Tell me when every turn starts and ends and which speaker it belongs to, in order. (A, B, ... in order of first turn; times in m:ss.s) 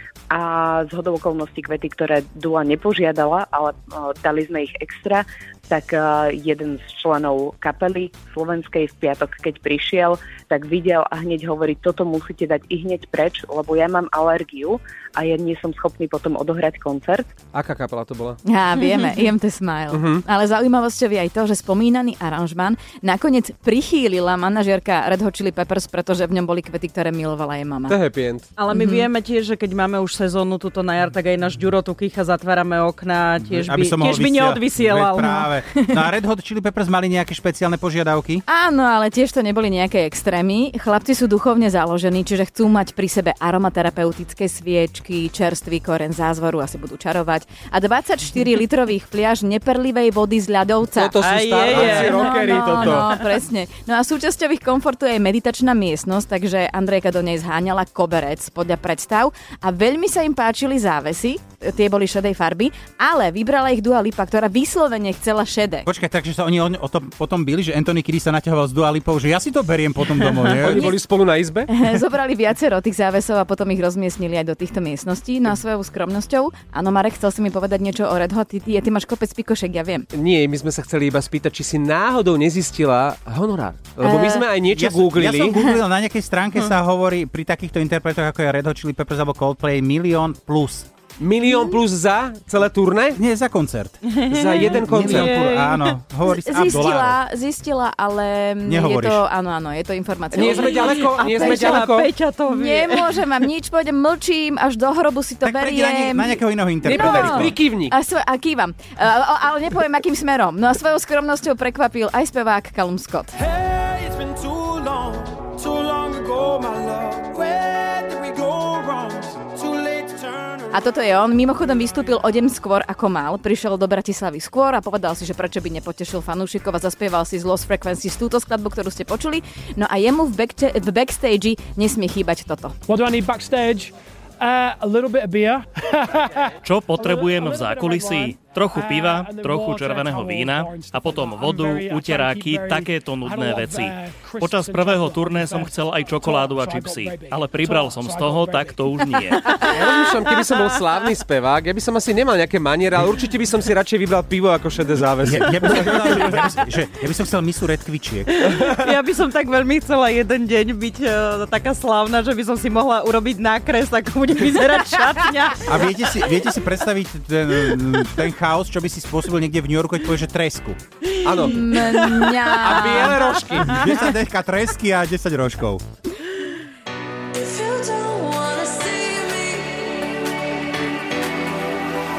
0:00.4-0:17.2 A
0:17.5-0:18.4 B
0:18.5-0:28.0 C
0:19.9-0:20.2 B
0:27.9-0:28.5 B
0:28.6-0:35.3 D
0:28.7-0:29.1 C
0:33.4-0:38.4 E
0:38.5-1:05.9 C
0:51.0-0:53.1 B
0:51.2-0:52.2 D
1:05.9-1:10.9 E
1:10.5-1:11.7 B
1:10.7-1:11.0 C
1:11.7-1:20.1 C
1:20.1-1:25.6 B
1:24.0-1:24.4 C
1:24.7-1:30.9 E
1:31.2-1:33.2 B
1:33.2-1:37.2 E
1:34.3-1:35.4 B
1:36.2-1:41.9 C
1:38.6-1:39.2 E
1:40.3-1:42.1 B
1:40.9-1:43.2 D
1:42.5-1:53.3 C
1:45.4-1:47.5 E
1:46.8-1:47.9 B
1:53.4-2:00.7 F
2:00.7-2:12.8 C
2:12.9-2:16.4 G
2:16.6-2:29.8 H
2:17.0-2:28.9 G
2:29.6-2:36.2 B
2:35.2-2:38.4 E
2:38.5-2:39.0 B
2:38.8-2:45.6 D
2:45.6-2:50.8 E
2:51.2-2:51.7 B
2:51.4-2:53.2 C
2:52.6-2:53.8 B
2:53.0-2:55.8 E
2:57.4-2:59.8 D